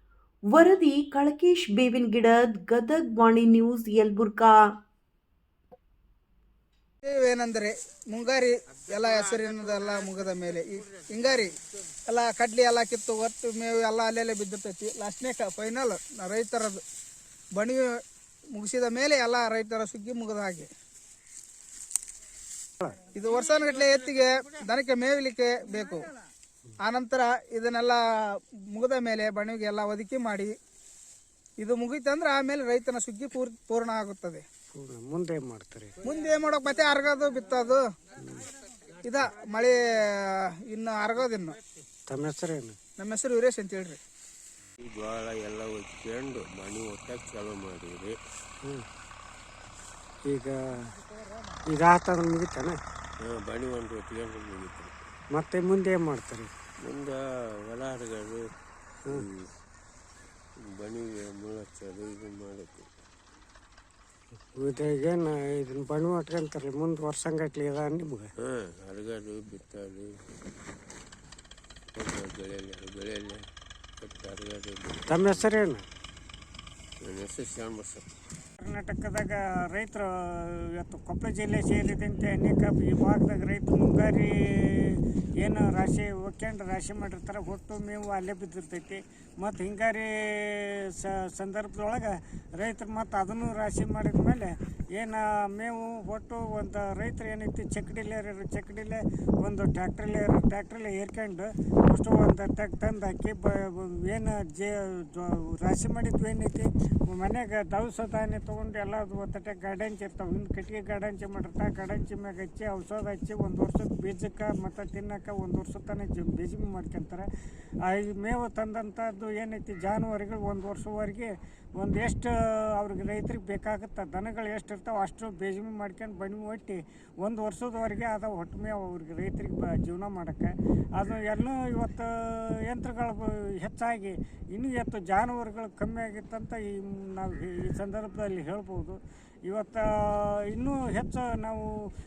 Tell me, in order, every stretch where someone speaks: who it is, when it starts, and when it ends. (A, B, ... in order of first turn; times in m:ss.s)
0:00.5-0:04.6 A
0:07.0-0:16.8 B
0:17.5-0:20.7 B
0:23.0-0:26.1 B
0:26.8-0:30.6 B
0:31.6-0:34.4 B
0:34.7-0:35.9 C
0:36.0-0:37.9 B
0:39.0-0:41.6 B
0:42.1-0:42.8 C
0:43.0-0:44.0 B
0:44.8-0:48.2 D
0:50.2-0:50.9 C
0:51.6-0:52.8 C
0:53.2-0:54.9 D
0:55.3-0:56.5 C
0:56.8-0:58.4 D
0:59.1-0:59.5 D
1:00.6-1:02.9 D
1:04.6-1:08.3 C
1:08.4-1:10.1 D
1:11.9-1:13.4 D
1:14.0-1:15.4 D
1:15.1-1:15.8 C
1:17.0-1:18.0 D
1:18.6-1:57.3 E
1:57.9-2:21.7 E